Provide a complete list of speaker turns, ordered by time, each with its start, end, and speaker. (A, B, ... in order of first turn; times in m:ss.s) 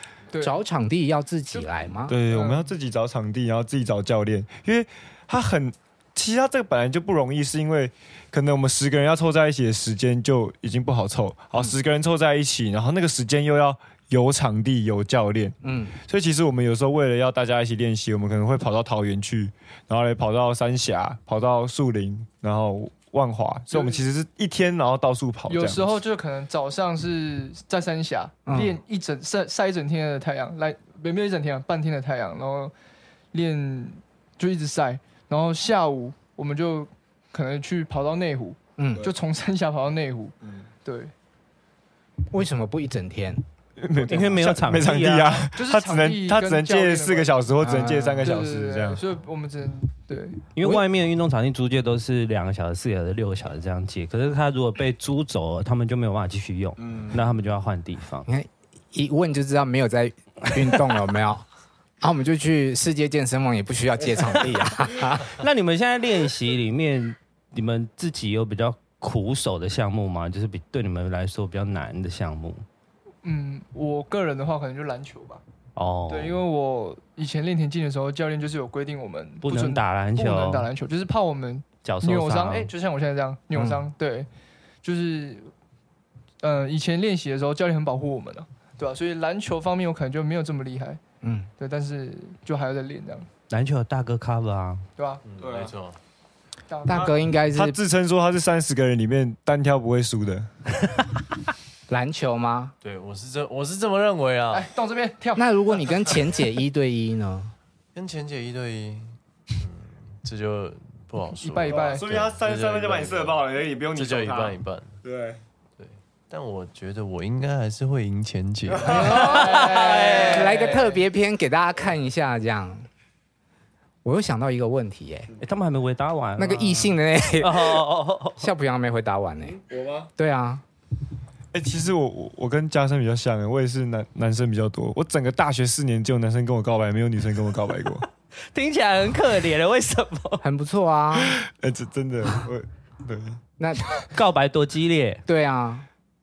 0:00.3-0:00.6 A
0:00.4-0:02.2 B
0:02.1-0:25.9 C
0:02.3-0:02.7 A
0:15.6-0:15.9 B
0:23.7-0:24.0 A
0:25.5-0:32.7 A
0:28.5-0:28.8 B
0:33.3-0:41.1 A
0:38.8-0:39.1 B
0:42.3-0:43.4 B
0:43.8-0:49.0 C
0:44.0-0:45.4 D
0:45.5-0:47.5 A
0:47.6-0:48.4 B
0:48.2-0:50.5 A
0:50.5-0:58.3 D
0:56.8-0:57.2 C
0:58.2-1:01.4 B
1:02.0-1:05.3 B
1:05.2-1:12.6 D
1:13.2-1:15.4 A
1:15.8-1:16.4 D
1:16.1-1:24.3 A
1:19.4-1:20.7 D
1:21.8-1:22.7 D
1:23.5-1:23.9 B
1:24.8-1:25.5 A
1:26.4-1:31.0 A
1:31.2-1:31.5 B
1:31.6-1:33.3 A
1:33.5-1:34.8 D
1:35.0-1:35.2 A
1:35.2-1:36.0 E
1:35.4-1:35.7 C
1:36.7-1:37.1 A
1:36.8-1:37.8 B
1:36.9-1:40.5 C
1:41.9-1:42.7 B
1:42.8-1:44.7 E
1:44.5-1:45.9 A
1:45.4-1:47.5 B
1:47.9-1:55.0 E
1:51.4-1:52.0 A
1:51.7-1:55.4 C
1:55.8-1:59.3 E
1:58.7-1:59.7 C
1:58.8-2:02.9 B
1:58.9-2:01.0 A
1:59.6-2:00.5 D
2:04.0-2:05.3 B
2:05.4-2:08.5 D
2:06.4-2:07.9 B
2:08.4-2:09.6 B
2:09.6-2:10.1 C
2:10.2-2:10.6 B
2:11.5-2:18.0 C
2:18.5-2:20.4 D
2:20.4-2:21.3 B
2:21.3-2:23.4 C
2:23.6-2:24.0 B
2:24.1-2:25.2 D
2:25.3-2:25.9 B